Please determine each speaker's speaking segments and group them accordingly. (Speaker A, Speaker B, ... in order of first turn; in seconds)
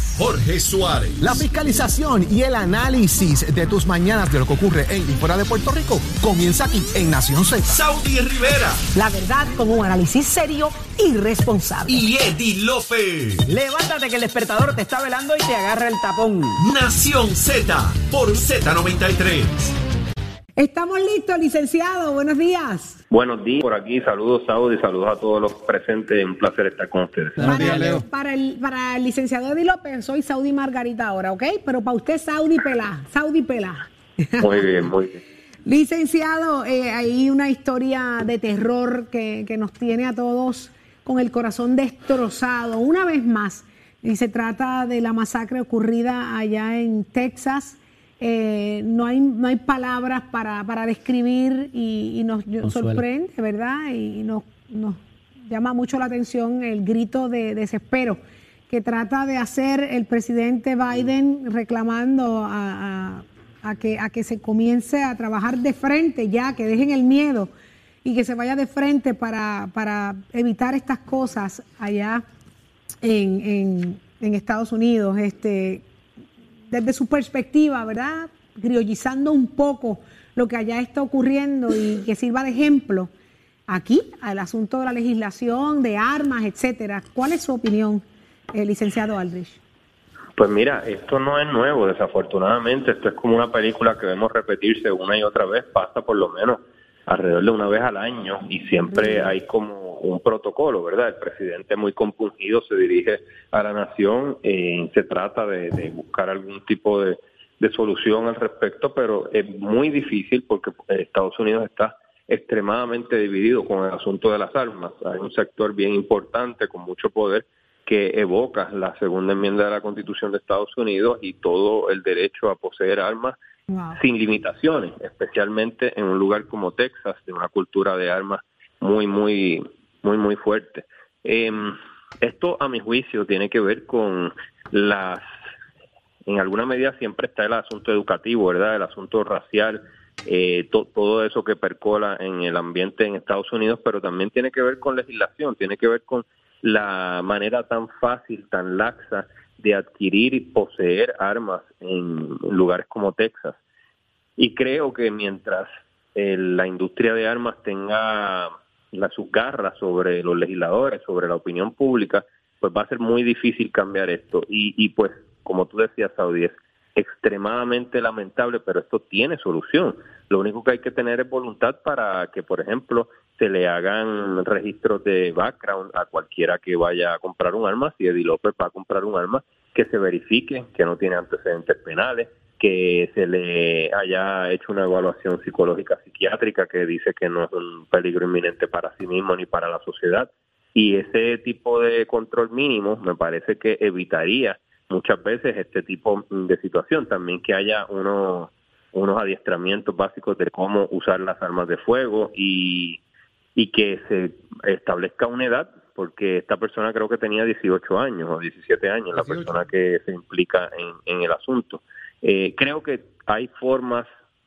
Speaker A: 0.2-1.4, 7.7-8.8, 11.9-13.5, 16.6-19.7
Speaker B: 1.2-7.8, 27.4-28.0
Speaker C: 8.9-12.0, 20.6-23.0, 27.4-34.8, 35.6-67.5, 68.0-72.2, 73.0-75.8, 76.7-83.1, 83.7-89.6, 98.9-99.3, 123.7-124.0
Speaker D: 13.5-16.6, 27.4-28.0, 52.6-53.0
Speaker E: 23.1-27.6, 34.4-35.2, 90.4-123.3, 123.9-135.2, 136.2-153.6, 154.4-203.0, 203.6-214.1